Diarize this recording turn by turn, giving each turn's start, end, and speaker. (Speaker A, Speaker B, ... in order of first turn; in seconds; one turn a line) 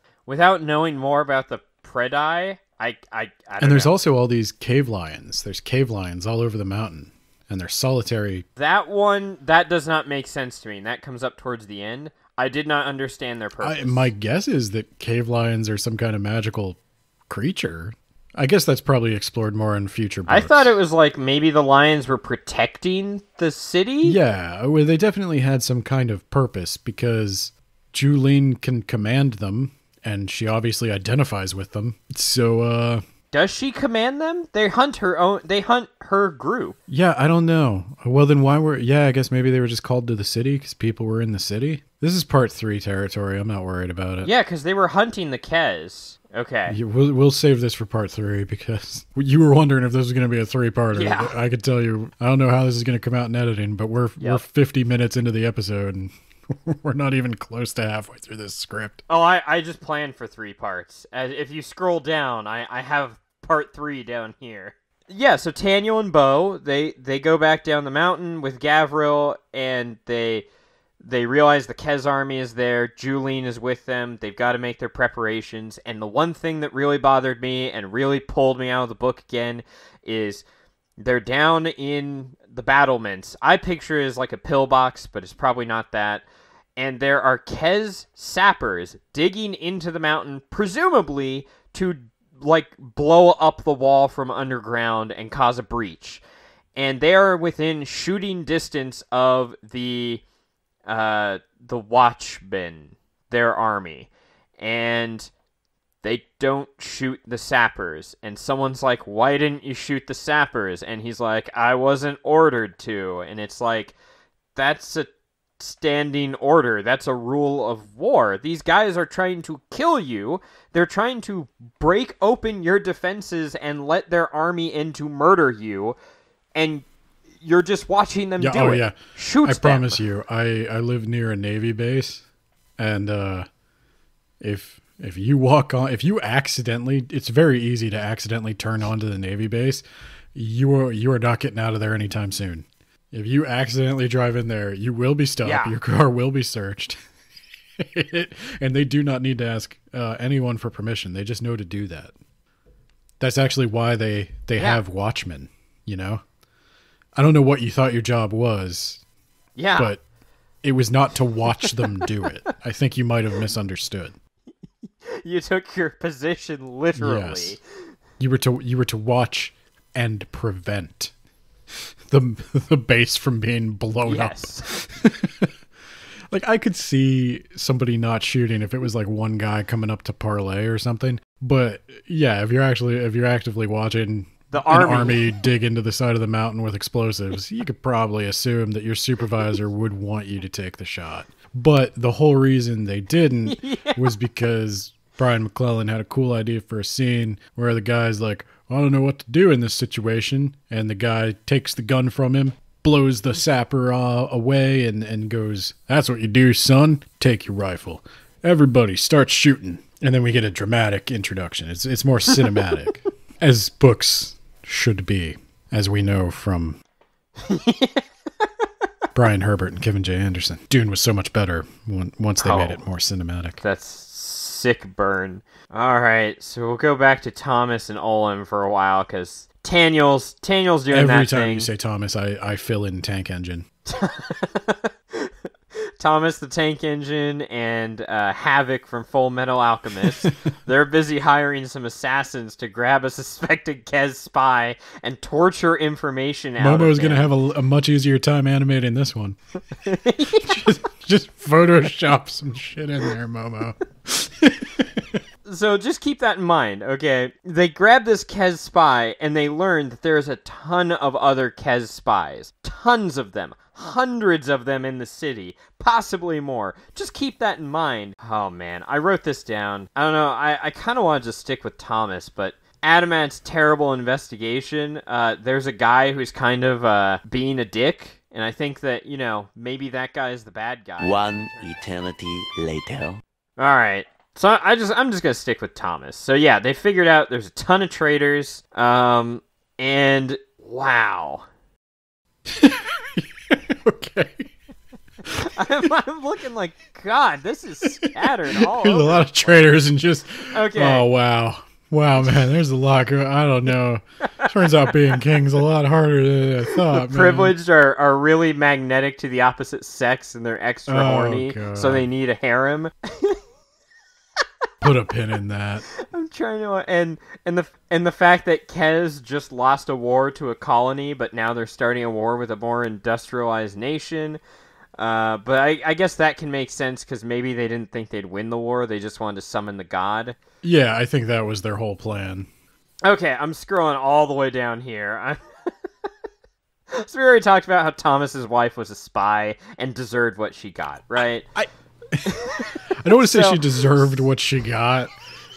Speaker A: 0.3-4.0
Speaker B: 3.6-8.4
Speaker A: 8.6-14.1
Speaker B: 13.6-20.8
Speaker A: 20.3-24.2
Speaker B: 24.0-33.0
Speaker A: 33.3-36.8
Speaker B: 36.9-44.3
Speaker A: 44.2-46.8
Speaker B: 46.7-59.0
Speaker A: 50.9-51.4
Speaker A: 59.1-70.5
Speaker A: 71.0-80.4
Speaker A: 81.0-86.2
Speaker A: 86.8-96.2
Speaker A: 96.8-100.2
Speaker A: 100.9-105.3
Speaker A: 106.0-113.9
Speaker A: 114.5-126.0
Speaker A: 126.5-126.8
Speaker A: 127.4-130.0
Speaker B: 128.4-132.2
Speaker B: 132.8-133.5
Speaker B: 134.4-139.8
Speaker B: 140.3-147.0
Speaker A: 145.4-145.7
Speaker B: 147.8-152.1
Speaker B: 153.2-156.2
Speaker A: 154.6-154.8
Speaker B: 157.2-159.0
Speaker A: 159.6-159.9
Speaker B: 159.8-160.0
Speaker B: 160.6-164.2
Speaker A: 165.0-167.6
Speaker B: 167.0-167.6
Speaker B: 168.2-171.1
Speaker B: 172.1-175.5
Speaker A: 174.0-174.7
Speaker B: 176.3-216.8
Speaker A: 184.5-185.3
Speaker A: 193.4-194.1
Speaker A: 217.4-218.6
Speaker B: 219.1-223.6
Speaker A: 222.4-222.8
Speaker A: 223.6-231.7
Speaker B: 230.9-233.7
Speaker A: 233.9-235.3
Speaker A: 236.0-247.3
Speaker B: 240.0-240.3
Speaker B: 246.6-249.4
Speaker A: 249.7-250.7
Speaker B: 250.3-255.2
Speaker A: 255.4-281.7
Speaker C: 281.0-283.2
Speaker A: 283.6-291.4
Speaker B: 292.4-294.5
Speaker B: 295.2-295.5
Speaker A: 295.3-299.2
Speaker B: 297.9-307.5
Speaker A: 300.5-301.1
Speaker A: 306.7-313.4
Speaker B: 310.9-312.1
Speaker B: 314.8-315.8
Speaker A: 315.9-324.4
Speaker A: 325.0-330.4
Speaker B: 330.6-332.5
Speaker A: 333.0-335.4
Speaker A: 336.9-341.4
Speaker B: 341.6-345.1
Speaker A: 342.2-344.1